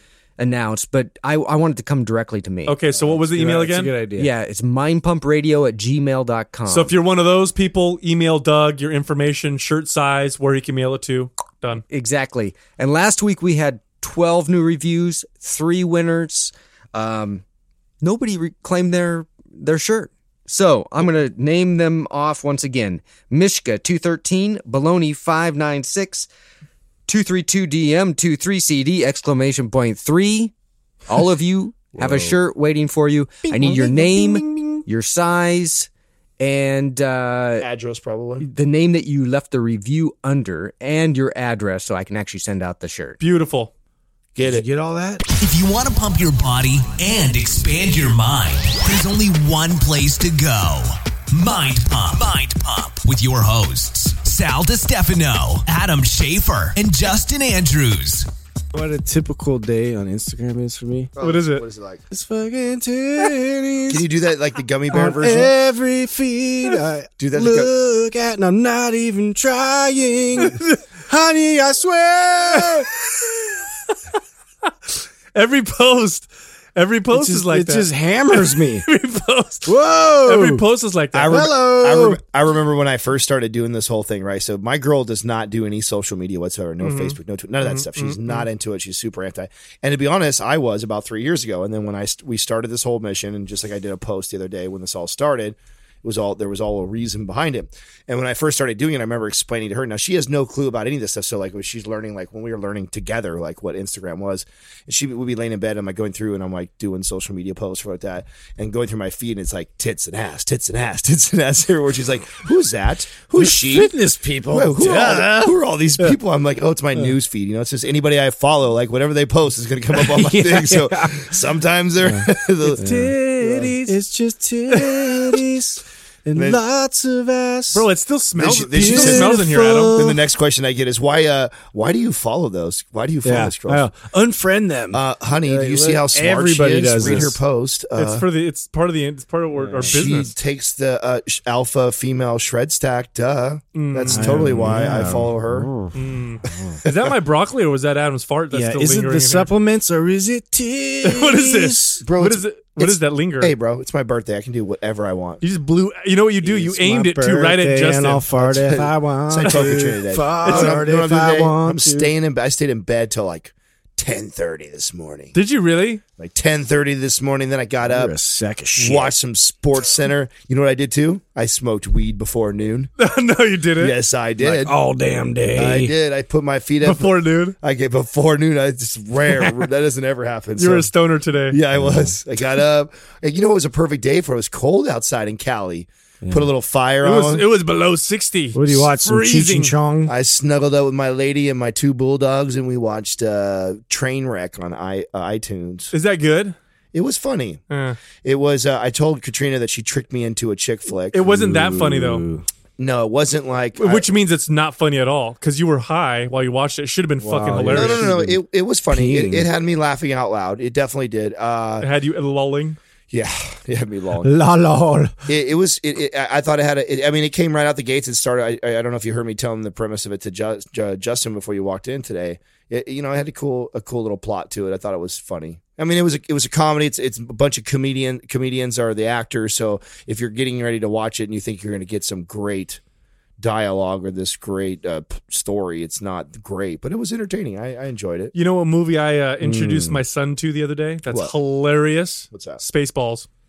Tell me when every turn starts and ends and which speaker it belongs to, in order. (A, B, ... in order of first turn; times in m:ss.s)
0:00.4-0:02.9 A
0:02.7-0:03.9 B
0:03.0-0:04.3 C
0:04.1-0:06.9 A
0:06.7-0:11.8 B
0:11.9-0:17.4 A
0:18.0-0:26.3 A
0:27.1-0:30.5 A
0:31.1-0:35.9 A
0:32.0-0:32.3 C
0:33.5-0:34.8 C
0:36.4-0:37.7 A
0:37.6-0:38.5 D
0:38.4-0:43.2 A
0:43.2-0:43.7 B
0:44.3-0:44.6 D
0:44.4-0:45.2 C
0:45.4-0:58.3 E
0:58.7-1:01.1 C
1:01.2-1:02.0 D
1:01.2-1:01.6 B
1:02.1-1:04.0 C
1:03.9-1:05.5 D
1:04.9-1:12.9 C
1:07.2-1:07.7 D
1:12.6-1:13.9 B
1:14.9-1:21.4 B
1:17.1-1:18.8 C
1:19.7-1:20.6 C
1:21.1-1:53.9 D
1:21.3-1:22.2 C
1:26.8-1:28.5 B
1:53.4-1:56.2 C
1:54.5-2:03.8 D
1:59.9-2:01.4 C
2:02.0-2:07.9 C
2:06.3-2:06.6 D
2:07.7-2:10.0 B
2:08.4-2:09.4 D
2:08.7-2:10.2 C
2:09.9-2:13.9 D
2:13.2-2:17.4 C
2:14.9-2:18.2 D
2:17.0-2:17.3 B
2:18.0-2:20.3 B
2:19.5-2:20.0 C
2:19.8-2:25.7 D
2:23.7-2:24.8 B
2:24.1-2:26.0 C
2:25.9-2:29.5 B
2:26.5-2:26.8 C
2:26.8-2:27.1 D
2:28.5-2:32.0 C
2:31.0-2:33.6 B
2:32.0-2:35.4 D
2:35.4-2:38.3 B
2:36.4-2:42.1 C
2:38.4-2:45.3 D
2:39.4-2:39.7 B
2:40.4-2:40.8 B
2:45.3-2:46.0 B
2:46.2-2:48.1 D
2:47.8-2:49.1 C
2:48.8-2:52.9 D
2:53.0-2:54.0 B
2:53.8-2:54.7 D
2:54.4-2:55.9 C
2:55.5-3:00.9 D
2:56.8-2:57.6 B
3:00.6-3:01.6 B
3:01.5-3:07.4 D
3:01.8-3:02.1 C
3:07.0-3:09.8 B
3:08.5-3:10.1 C
3:10.0-3:15.9 D
3:15.9-3:16.6 B
3:16.9-3:17.6 D
3:17.7-3:18.0 B
3:18.2-3:21.2 D
3:21.1-3:22.2 B
3:21.2-3:22.4 C
3:22.8-3:24.0 D
3:23.8-3:28.1 B
3:27.2-3:28.4 C
3:27.7-3:31.9 D
3:28.9-3:29.5 C
3:31.8-3:32.8 B
3:33.1-3:34.3 D
3:34.2-3:35.1 C
3:35.3-3:52.8 D
3:53.4-3:58.3 D
3:58.3-4:03.3 B
3:59.4-4:00.0 C
4:01.1-4:01.3 D
4:02.3-4:02.6 D